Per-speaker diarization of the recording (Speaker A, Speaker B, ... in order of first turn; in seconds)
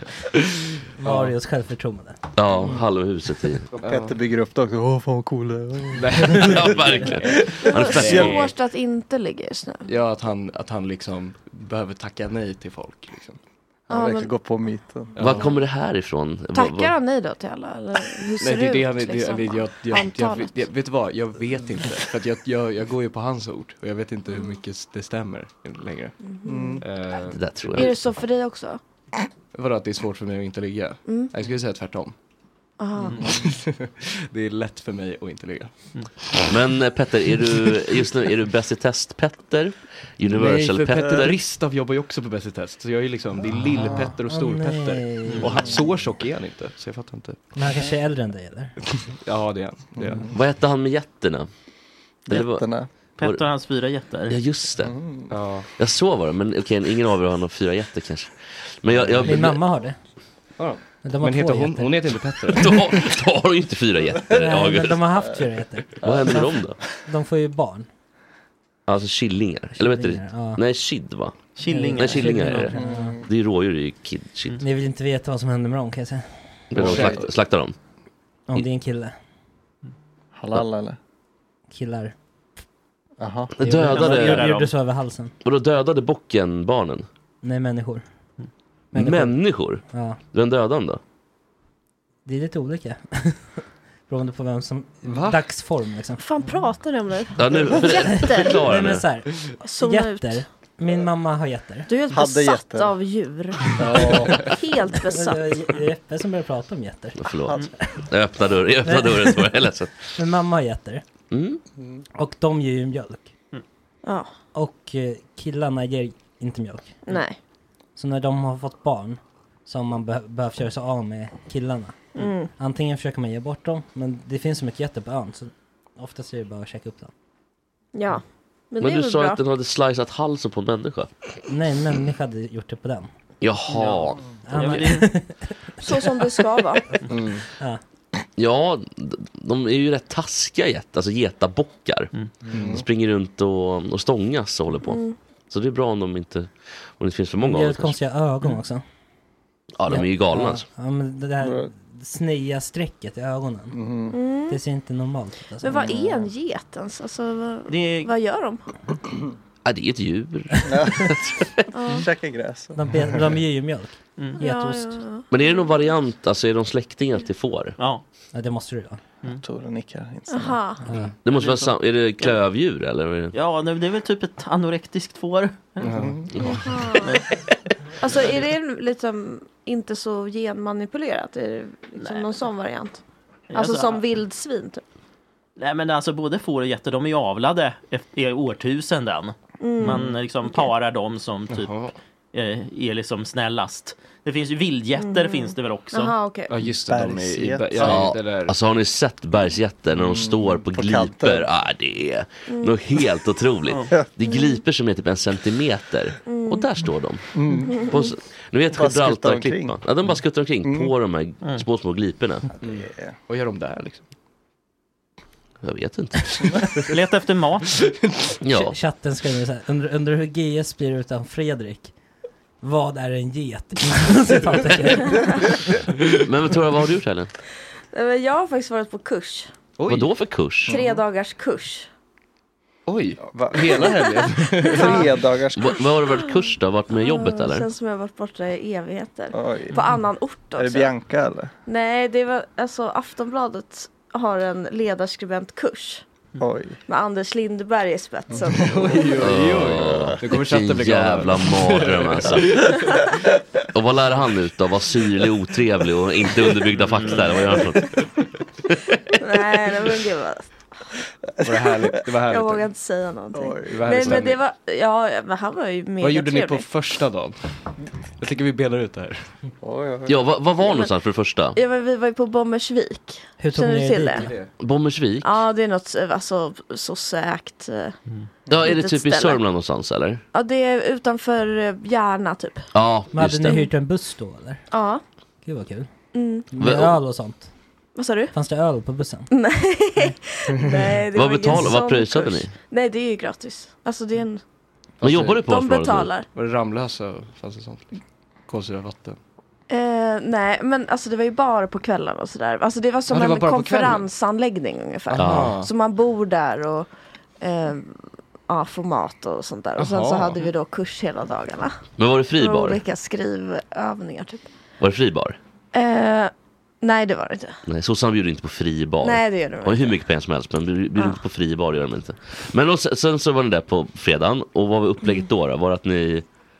Speaker A: 1.0-2.8, 43.8-45.8, 47.5-48.8, 59.2-60.0, 61.0-62.1, 64.3-67.9, 69.8-70.6, 71.7-73.2, 74.6-77.0, 78.5-79.1, 81.7-82.1, 83.6-85.3, 87.4-88.1, 88.9-90.2, 92.2-96.3, 98.0-101.9, 105.0-107.2, 108.8-109.5, 110.1-111.0, 112.2-113.3, 114.5-117.0, 118.0-127.1, 131.5-133.1, 134.4-136.1, 147.4-148.8, 149.9-153.8, 154.5-155.9, 162.7-165.0, 168.3-169.0, 218.6-221.9, 222.6-225.6, 273.4-274.3, 283.1-284.6, 285.4-285.9, 286.5-287.5, 288.3-289.3
Speaker B: 1.0-1.3, 3.8-4.1, 5.9-8.5, 9.9-13.4, 15.2-15.5, 18.4-26.1, 26.8-27.8, 29.5-32.1, 33.3-35.7, 40.3-47.4, 49.1-50.3, 55.3-55.7, 58.9-59.4, 60.6-62.9, 76.8-77.2, 95.0-95.4, 137.1-137.4, 142.5-142.8, 175.8-176.6, 191.5-191.9, 196.5-198.6, 212.6-214.1, 229.8-230.1, 232.9-235.0, 248.6-252.8, 261.4-262.7, 263.7-264.4, 266.0-267.4, 268.2-269.3, 274.2-274.5, 295.0-295.4, 296.3-299.2, 303.1-304.1, 305.1-305.7, 309.8-310.5
Speaker C: 2.4-3.7, 6.4-8.5, 15.2-16.9, 27.2-28.0, 36.5-41.4, 50.3-51.5, 52.3-52.7, 54.3-54.9, 55.8-59.6, 62.5-65.0, 66.0-66.8, 68.9-74.6, 76.7-77.8, 83.6-84.5, 85.4-87.1, 88.9-91.0, 97.4-99.1, 107.2-109.9, 111.3-111.6, 128.8-131.1, 133.4-134.2, 138.4-147.9, 149.8-150.6, 159.6-161.7, 165.3-167.8, 171.2-173.3, 197.8-207.3, 207.8-212.5, 215.6-216.8, 218.4-218.8, 226.2-227.3, 229.9-230.8, 235.6-237.7, 249.1-252.7, 253.7-258.0, 270.1-271.6, 274.6-275.4, 278.5-280.2, 282.7-283.6, 286.6-287.0, 291.1-292.5, 295.0-296.2, 305.1-305.6, 312.0-312.8, 314.8-315.4, 317.6-326.2
Speaker D: 3.7-8.3, 13.9-15.2, 26.5-26.8, 33.1-33.5, 50.0-50.3, 52.3-52.9, 54.8-55.3, 72.8-73.2, 76.8-77.2, 80.4-81.0, 83.2-83.5, 102.1-102.9, 103.7-104.6, 142.5-142.8, 151.4-151.7, 153.7-154.2, 155.7-156.3, 160.7-161.2, 161.9-162.8, 169.4-170.6, 175.9-176.3, 196.9-198.0, 199.9-201.5, 207.3-207.9, 208.7-209.8, 210.6-210.9, 212.6-213.1, 230.7-231.0, 233.2-235.9, 239.3-240.0, 240.6-241.5, 246.4-246.8, 248.3-248.9, 261.5-261.9, 263.3-264.3, 269.6-270.2
Speaker E: 7.7-9.9, 13.9-14.3, 16.5-20.6, 26.2-26.8, 27.8-28.8, 31.0-31.3, 32.8-33.3, 96.2-98.6, 99.6-100.5, 101.9-105.5, 114.0-114.3, 117.1-117.4, 122.2-122.5, 127.9-129.4, 135.8-137.0, 144.8-145.2, 154.1-154.6, 155.6-158.7, 161.7-162.1, 164.4-165.6, 170.3-170.9, 176.5-177.2, 178.0-183.0, 183.5-184.8, 189.6-190.7, 195.0-196.6, 202.5-202.8, 204.3-204.6, 206.2-206.6, 207.6-208.1, 227.9-229.5, 230.7-231.9, 234.6-235.1, 236.9-240.9, 241.7-246.0, 246.9-249.1, 259.2-260.5, 262.3-266.7, 270.6-270.9, 271.6-274.3, 275.2-277.9, 278.6-279.4, 280.3-282.7, 284.7-285.0, 286.1-286.5, 287.9-288.3, 289.3-294.4, 295.4-296.3, 299.7-306.9, 307.4-307.9, 308.5-311.8, 312.4-314.5, 315.7-316.3, 316.8-317.6, 319.0-320.0
Speaker F: 45.2-45.5, 53.2-54.4, 71.5-72.7, 83.9-84.7, 133.7-135.1, 157.7-158.1, 173.3-176.0, 178.1-178.4, 182.0-182.3, 183.5-184.0, 185.6-191.7, 192.3-196.2, 216.9-217.7, 256.8-257.3